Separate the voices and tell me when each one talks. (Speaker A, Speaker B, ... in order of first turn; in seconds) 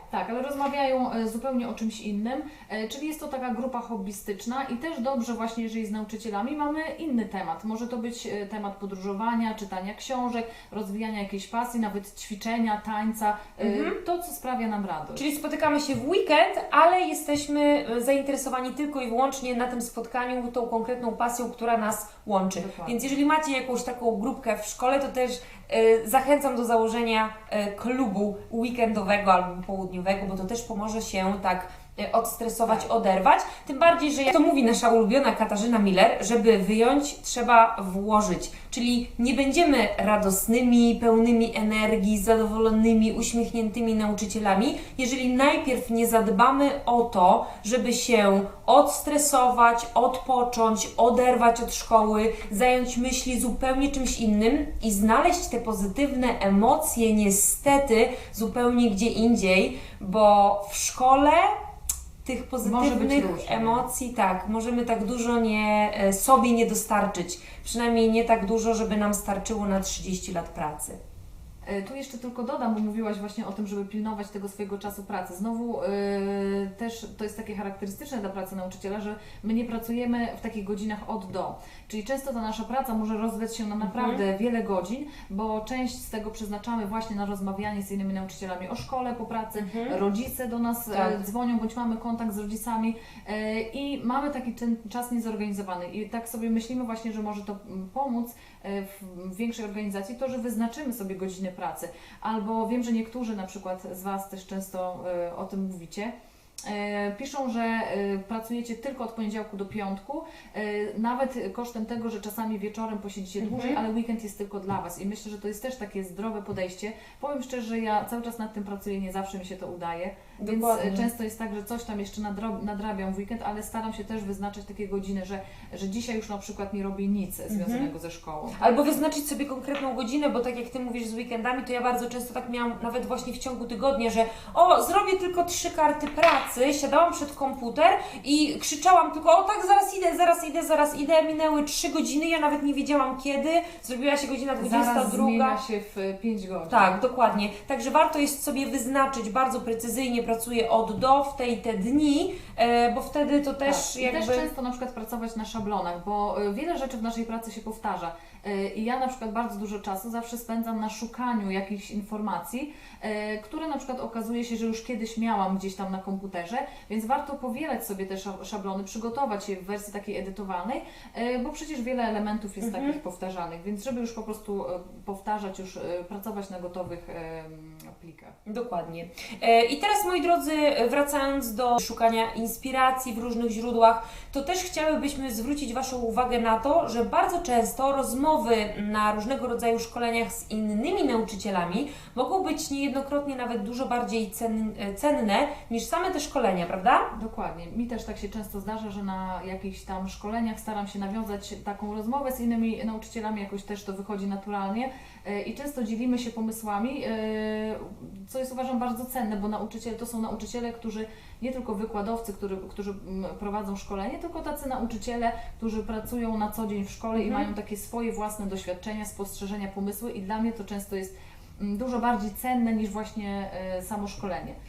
Speaker A: 0.1-15.3, 22.5-23.1, 62.6-63.9, 71.7-106.1, 106.6-128.6, 144.6-147.0, 153.6-178.3, 197.1-224.6
Speaker B: 13.6-14.0, 15.1-61.5, 62.2-71.0, 83.8-84.2, 89.6-90.0, 113.4-113.8, 120.4-121.1, 127.5-127.9, 128.6-145.6, 146.7-154.5, 172.6-173.0, 178.4-197.1, 217.2-217.5